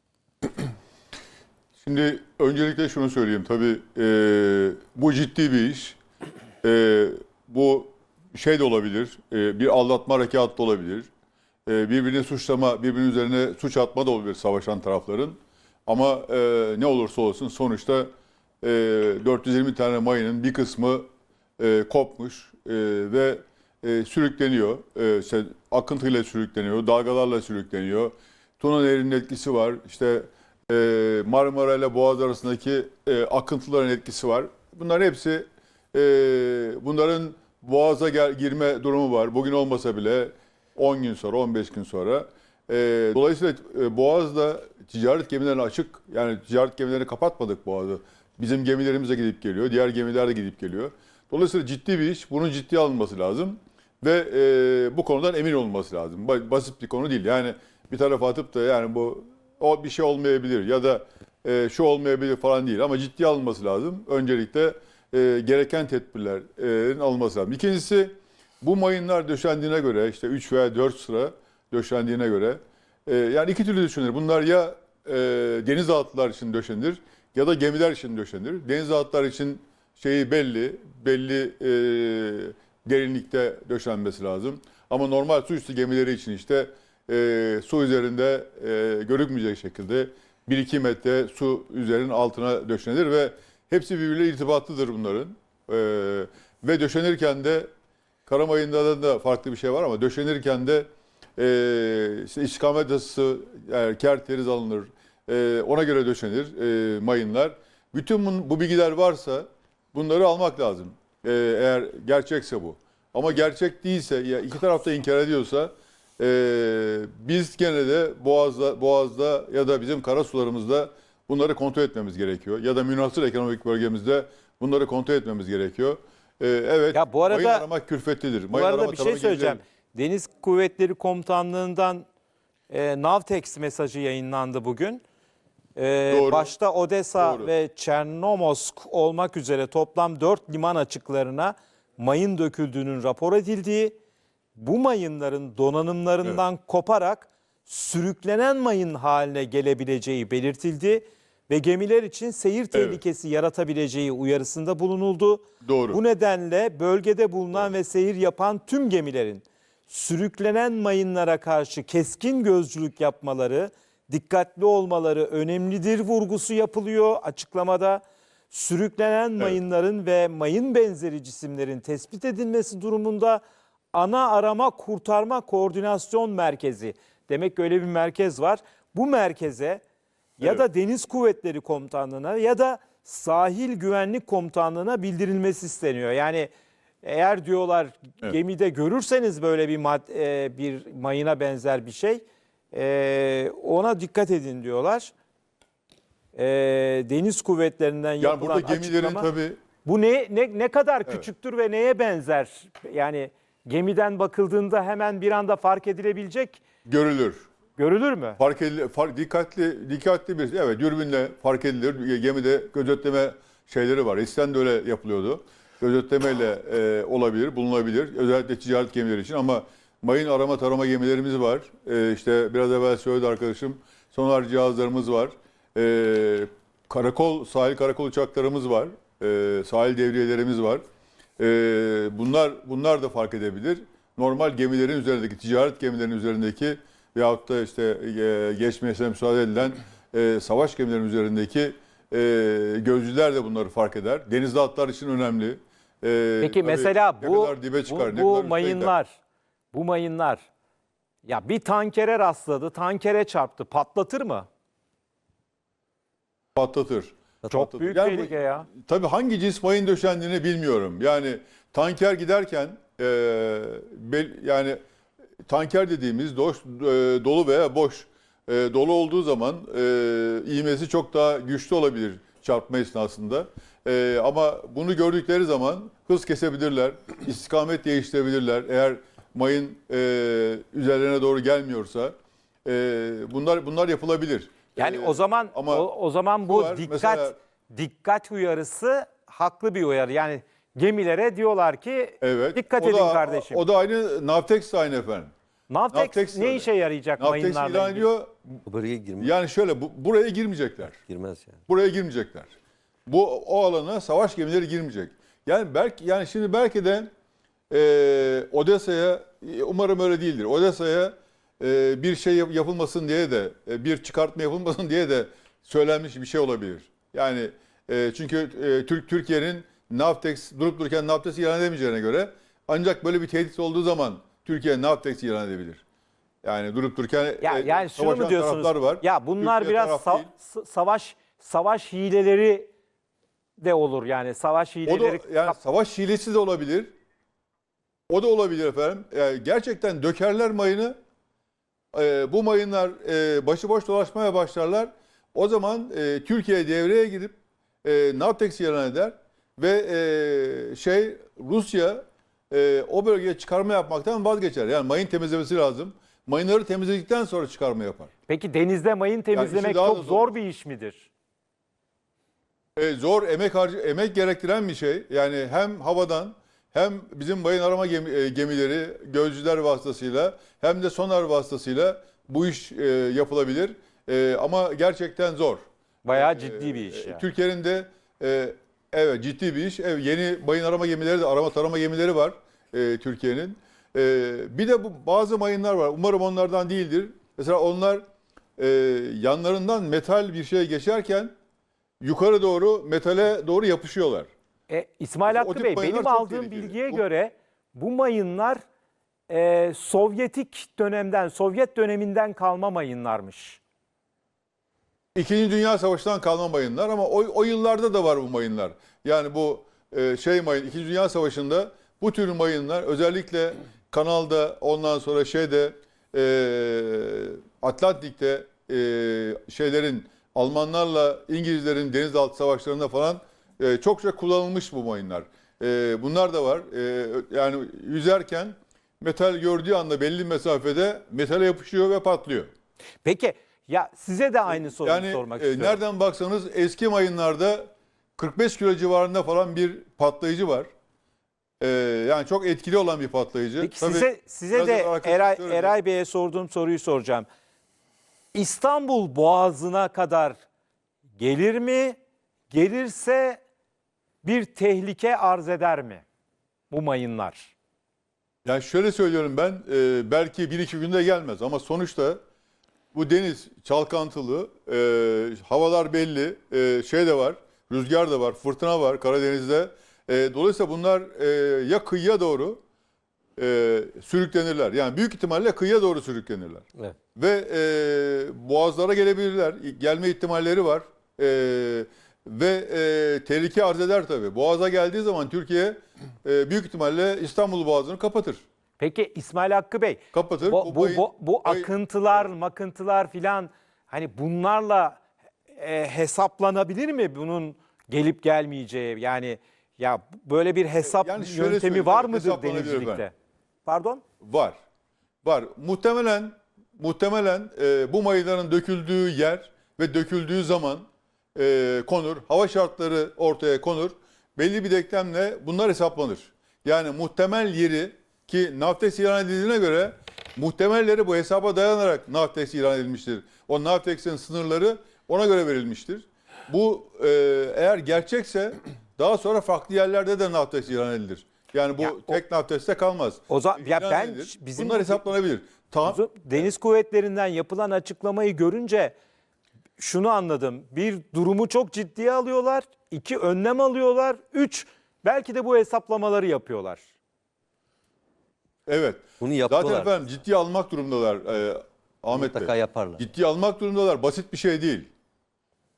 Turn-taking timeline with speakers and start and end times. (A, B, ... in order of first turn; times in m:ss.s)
0:01.8-0:06.0 A
0:06.6-0:11.1 A
0:11.7-0:18.1 A
0:18.6-0:21.1 A
0:21.6-1:37.7 A
1:38.3-2:09.6 A
2:06.9-2:07.7 B
2:08.5-2:12.0 B
2:12.7-2:15.0 B
2:15.8-2:24.0 B
2:16.1-2:16.5 A
2:17.2-2:17.5 A
2:24.6-2:53.4 B
2:32.7-2:33.0 A
2:35.6-2:36.0 A
2:53.9-2:59.8 B
3:00.4-3:06.5 B
3:07.0-3:15.1 B
3:16.4-3:19.3 B
3:18.2-3:19.6 A
3:19.8-3:26.6 B
3:26.8-3:27.4 A
3:27.8-3:28.4 B
3:28.4-3:50.8 A
3:51.4-4:08.9 A
4:06.4-4:09.2 B
4:09.7-4:10.5 B
4:11.2-4:14.5 B
4:16.6-4:24.8 A
4:17.5-4:18.7 B
4:25.5-4:42.1 A
4:42.6-4:45.9 A
4:44.8-4:53.6 B
4:46.5-4:47.4 A
4:52.2-4:55.3 A
4:55.7-4:58.1 B
4:55.9-4:58.6 A
4:58.6-4:59.3 C
4:59.2-5:01.0 A
5:01.0-5:01.6 C
5:01.7-5:02.5 A
5:03.1-5:07.1 A
5:07.7-5:25.8 A
5:26.4-5:30.3 A
5:27.4-5:32.7 B
5:33.6-5:35.6 B
5:34.9-5:36.9 A
5:38.1-5:41.0 A
5:41.9-5:58.1 A
5:58.3-6:01.1 B
5:59.3-6:00.3 A
6:02.8-6:28.0 A
6:16.0-6:17.2 B
6:28.6-6:31.3 A
6:32.0-6:34.3 A
6:34.7-6:38.6 B
6:35.3-6:37.0 A
6:39.3-6:43.6 B
6:45.2-7:12.5 A
7:13.0-7:15.8 B
7:14.5-7:20.7 A
7:21.6-7:25.7 A
7:23.6-7:27.3 B
7:28.3-7:30.4 B
7:31.2-7:32.0 B
7:32.5-7:33.4 B
7:34.2-7:36.0 B
7:36.7-7:37.5 B
7:38.4-7:42.2 A
7:42.9-7:52.6 A
7:53.4-8:08.4 A
8:08.8-8:15.0 B
8:10.1-8:12.3 A
8:15.6-8:23.1 B
8:20.8-8:23.0 A
8:23.7-8:24.0 B
8:24.2-8:24.6 A
8:25.2-8:56.5 A
8:51.8-8:52.2 B
8:53.3-8:55.0 B
8:55.9-8:59.0 B
8:59.8-9:06.8 B
9:08.7-9:14.9 A
9:09.2-9:09.9 C
9:12.1-9:13.1 C